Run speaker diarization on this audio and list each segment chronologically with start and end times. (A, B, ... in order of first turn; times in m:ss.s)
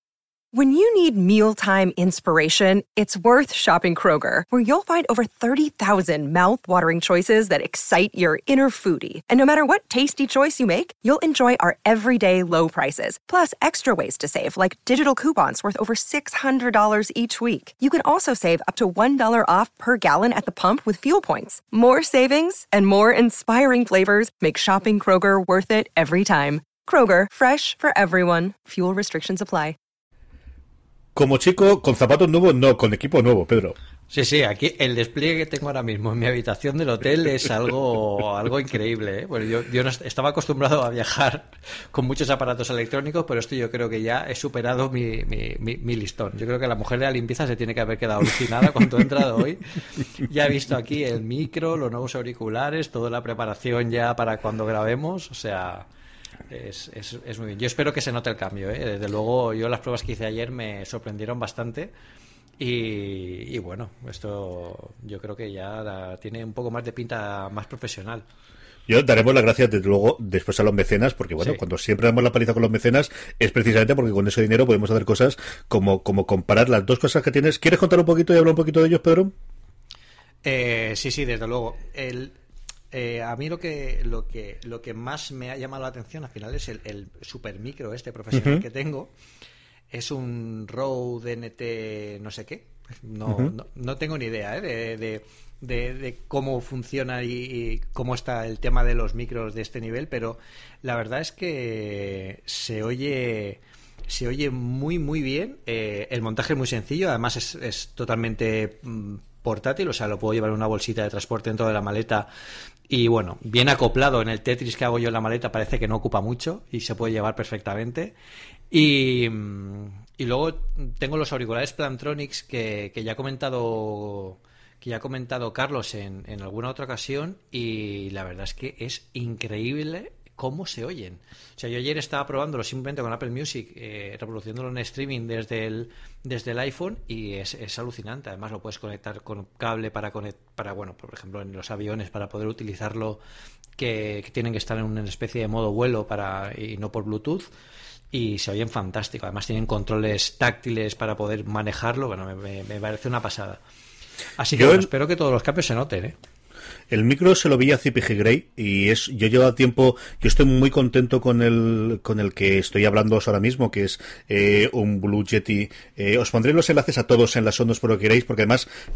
0:00.5-0:29.8 A
0:31.1-0:33.8 B
0:34.1-0:55.9 C
0:56.5-1:01.9 C
1:02.6-1:08.2 C
1:08.9-1:19.3 B
1:20.4-1:22.3 C
1:22.9-1:29.1 C
1:28.3-1:28.6 B
1:29.9-1:52.3 C
1:33.3-1:33.5 B
1:52.9-1:58.1 C
1:58.7-2:23.2 C
2:23.8-2:27.5 C
2:28.1-2:33.6 C
2:34.4-2:36.2 C
2:34.5-2:34.9 B
2:36.9-2:48.6 B